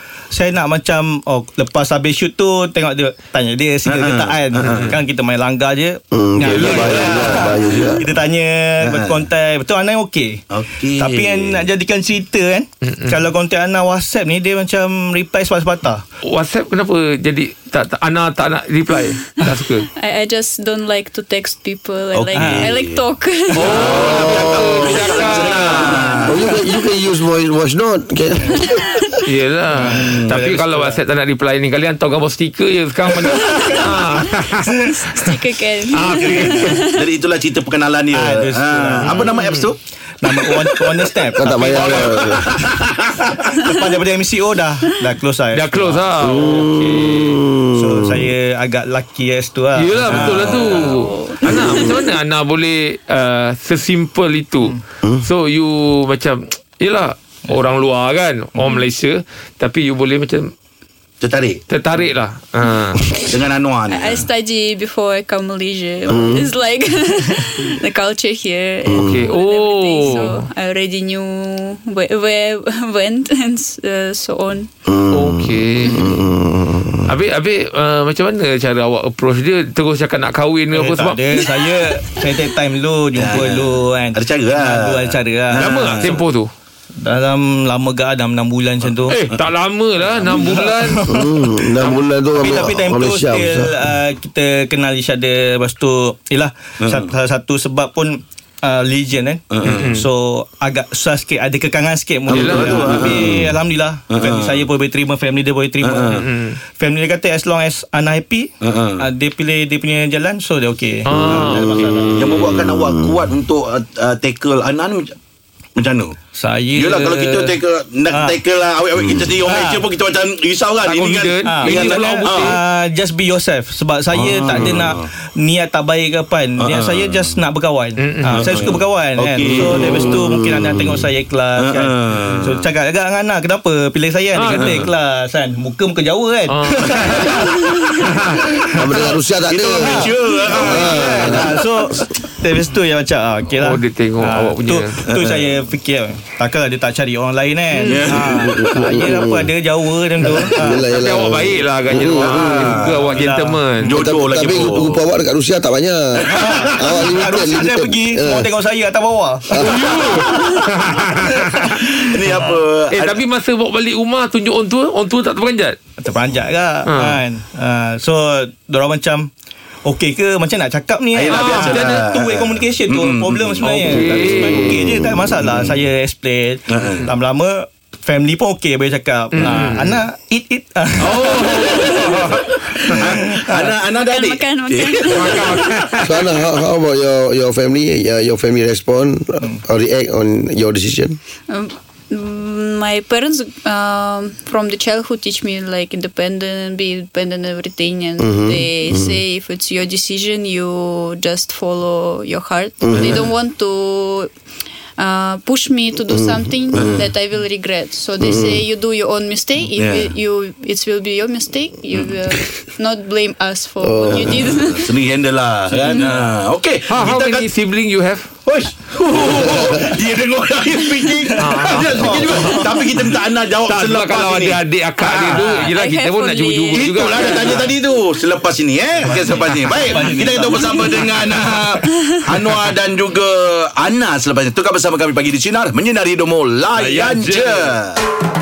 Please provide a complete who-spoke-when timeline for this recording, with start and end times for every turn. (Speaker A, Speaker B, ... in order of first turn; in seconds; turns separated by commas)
Speaker A: 0.3-16.0, Speaker B: 3.9-4.9, Speaker C: 4.6-4.9, Speaker D: 6.1-8.0, Speaker C: 6.5-7.1, Speaker B: 6.6-7.5, Speaker B: 8.8-9.2, Speaker B: 10.5-11.6, Speaker C: 16.3-19.9, Speaker E: 19.9-25.7, Speaker B: 22.1-23.0, Speaker A: 22.3-22.8, Speaker C: 23.5-26.2, Speaker B: 23.6-26.4, Speaker A: 23.6-23.9, Speaker D: 24.3-24.9, Speaker A: 25.7-26.2, Speaker D: 26.3-29.2, Speaker C: 29.2-35.0, Speaker A: 29.8-31.0, Speaker B: 29.9-30.4, Speaker A: 33.5-33.7, Speaker E: 35.0-37.1, Speaker C: 35.9-36.8, Speaker B: 36.2-39.8, Speaker A: 38.1-39.2, Speaker C: 39.1-39.7, Speaker A: 40.2-42.7, Speaker B: 40.4-40.7, Speaker D: 41.4-42.6, Speaker B: 41.6-43.3, Speaker A: 43.2-46.1, Speaker C: 45.5-47.4, Speaker D: 46.2-48.3, Speaker A: 47.7-50.9, Speaker C: 49.8-60.5, Speaker B: 50.2-51.1, Speaker E: 51.0-52.0, Speaker E: 58.6-58.9, Speaker B: 61.2-61.6, Speaker C: 61.7-63.0, Speaker B: 63.3-64.3, Speaker E: 63.3-74.7, Speaker D: 66.1-66.5, Speaker D: 68.9-69.3, Speaker C: 69.0-70.4, Speaker D: 74.9-77.1, Speaker C: 75.1-76.2, Speaker C: 77.1-81.4, Speaker A: 80.7-86.2, Speaker B: 83.2-86.1, Speaker C: 85.5-86.5, Speaker A: 87.0-89.2, Speaker C: 89.1-91.0, Speaker A: 90.3-91.5, Speaker D: 91.1-93.8, Speaker C: 91.8-92.1, Speaker A: 92.4-106.2, Speaker B: 96.8-97.1, Speaker B: 99.5-100.0, Speaker C: 99.6-100.0, Speaker B: 102.3-103.5, Speaker C: 102.3-102.9, Speaker B: 104.1-104.6, Speaker B: 105.8-106.2, Speaker C: 106.2-106.6, Speaker A: 106.8-112.3, Speaker B: 108.6-109.0, Speaker C: 111.1-112.5, Speaker B: 112.2-115.2, Speaker D: 112.8-113.1, Speaker B: 115.8-116.2, Speaker A: 116.3-117.5, Speaker B: 116.8-122.6, Speaker A: 118.1-118.3, Speaker A: 119.4-119.8, Speaker C: 120.8-122.6, Speaker A: 121.4-138.0, Speaker B: 124.1-125.1, Speaker B: 126.6-127.3, Speaker C: 128.0-128.5, Speaker B: 128.3-130.2, Speaker D: 129.7-131.0, Speaker B: 131.6-132.6, Speaker C: 134.3-134.9, Speaker B: 134.5-134.9, Speaker C: 136.5-138.6, Speaker D: 138.7-141.5, Speaker B: 139.5-142.0, Speaker A: 139.6-150.9, Speaker C: 143.5-145.0, Speaker B: 145.1-145.4, Speaker C: 147.8-148.1, Speaker B: 147.9-149.0, Speaker D: 148.3-149.5, Speaker D: 150.3-152.7, Speaker C: 151.0-154.0, Speaker B: 152.0-153.2, Speaker A: 153.1-153.6, Speaker B: 153.8-155.0, Speaker D: 153.9-156.2, Speaker A: 156.3-159.5, Speaker B: 156.4-157.0, Speaker D: 156.8-158.5, Speaker D: 159.5-159.9, Speaker C: 159.6-161.5, Speaker B: 160.0-160.6, Speaker B: 161.2-163.2, Speaker C: 162.9-165.8, Speaker A: 166.0-169.3, Speaker C: 166.9-167.2, Speaker A: 169.8-182.0, Speaker B: 171.1-175.7, Speaker C: 171.3-172.0, Speaker C: 173.7-174.8, Speaker B: 176.7-177.1, Speaker C: 179.3-180.0, Speaker C: 181.0-182.9, Speaker B: 181.3-185.6, Speaker A: 183.1-183.7, Speaker E: 183.9-185.9, Speaker C: 185.1-186.2, Speaker D: 186.0-191.2, Speaker E: 191.5-204.3, Speaker D: 198.2-199.2, Speaker D: 202.8-203.2, Speaker B: 202.9-203.2, Speaker E: 205.0-214.9, Speaker D: 206.1-207.1, Speaker B: 206.7-207.1, Speaker D: 208.2-208.7, Speaker B: 209.6-210.1, Speaker D: 213.8-214.4, Speaker B: 214.0-217.5, Speaker E: 215.8-216.1, Speaker C: 216.9-218.3, Speaker B: 218.4-225.6, Speaker C: 219.2-219.7, Speaker A: 221.2-222.9, Speaker C: 221.4-222.8, Speaker C: 223.6-227.6, Speaker E: 225.5-227.7, Speaker B: 226.7-238.0, Speaker A: 229.0-230.9, Speaker C: 236.8-237.7